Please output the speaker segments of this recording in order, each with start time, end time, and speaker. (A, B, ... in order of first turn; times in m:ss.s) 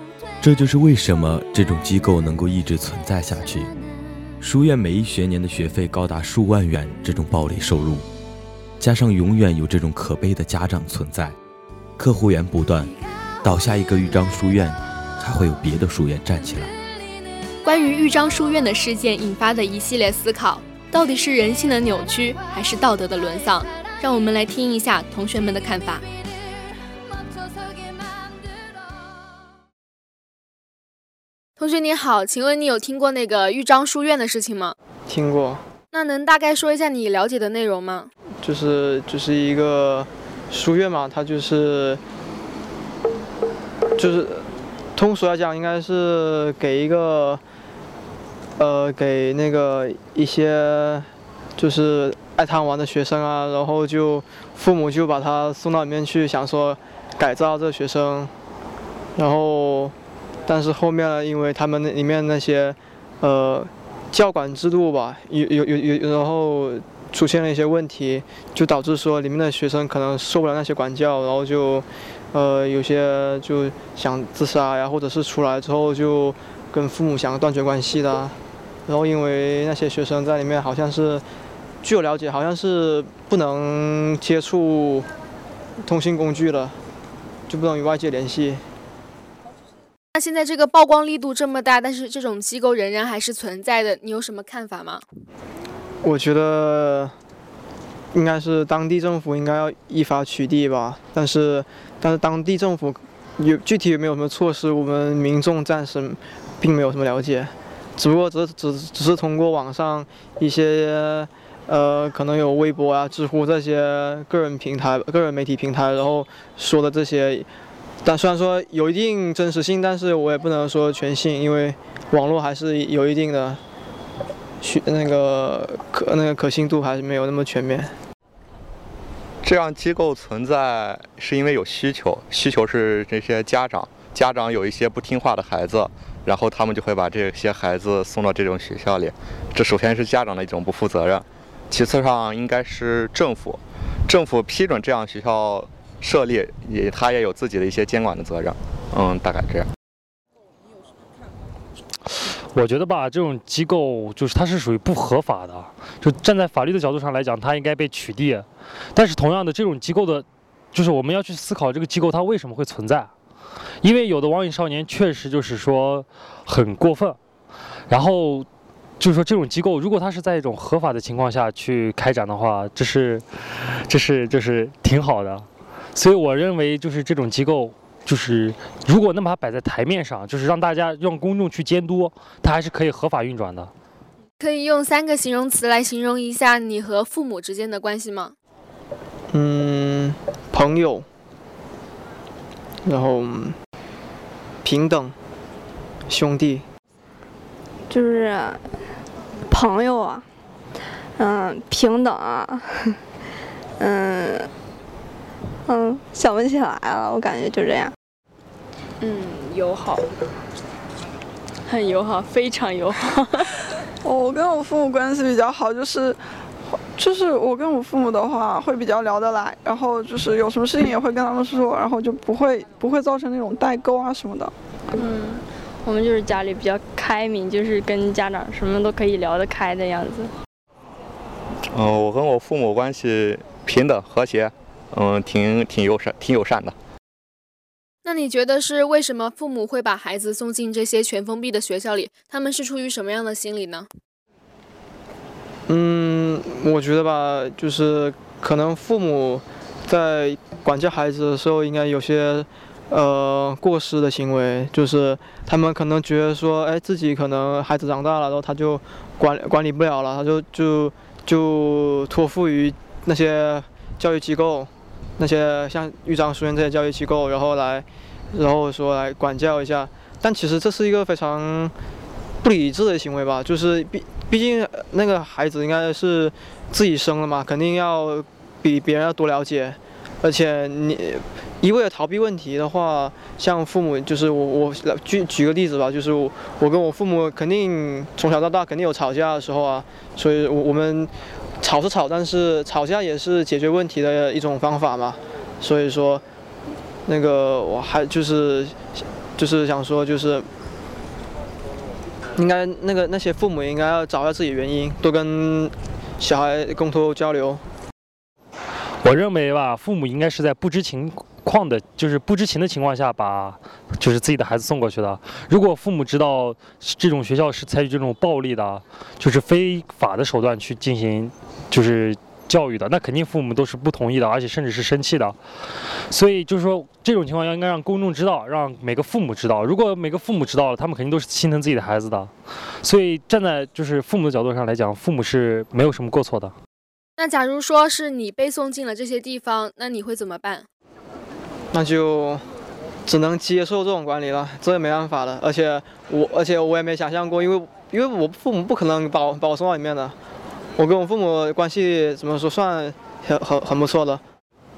0:00.4-0:03.7 A
0:04.4-0:08.1 A
0:08.8-0:11.4 A
0:12.0-0:16.7 A
0:17.6-0:26.1 B
0:31.6-0:34.8 B
0:35.1-0:35.6 C
0:35.9-0:38.1 B
0:38.4-0:42.0 C
0:44.0-0:47.4 C
0:48.6-0:58.3 C
0:59.2-0:59.9 C
1:00.5-1:21.2 C
1:21.8-1:25.1 C
1:25.8-1:26.8 C
1:27.5-1:28.6 C
1:30.2-1:35.0 B
1:36.0-1:37.1 C
1:38.1-1:57.5 C
1:58.0-2:03.6 C
2:04.6-2:07.9 C
2:09.4-2:29.7 D
2:32.5-2:43.1 E
2:43.8-2:47.2 E
2:47.9-2:48.5 E
2:49.0-3:03.7 E
3:04.4-3:08.4 B
3:09.3-3:11.1 C
3:12.8-3:13.6 C
3:14.6-3:15.2 C
3:16.1-3:16.6 C
3:17.9-3:18.6 F
3:19.5-3:20.3 F
3:21.2-3:23.0 F
3:23.8-3:24.5 F
3:25.7-3:27.9 F
3:29.0-3:30.0 G
3:31.7-3:33.5 G
3:34.0-3:44.5 H
3:44.9-3:50.3 G
3:51.7-3:56.8 D
3:58.0-4:03.9 B
4:05.7-4:31.7 C
4:32.4-4:56.2 C
4:57.1-4:58.8 C
4:59.4-5:00.5 C
5:02.4-5:07.6 C
5:09.0-5:25.4 E
5:26.1-5:36.5 E
5:37.2-5:40.7 B
5:41.7-5:42.4 C
5:43.1-5:50.2 C
5:50.8-5:54.2 C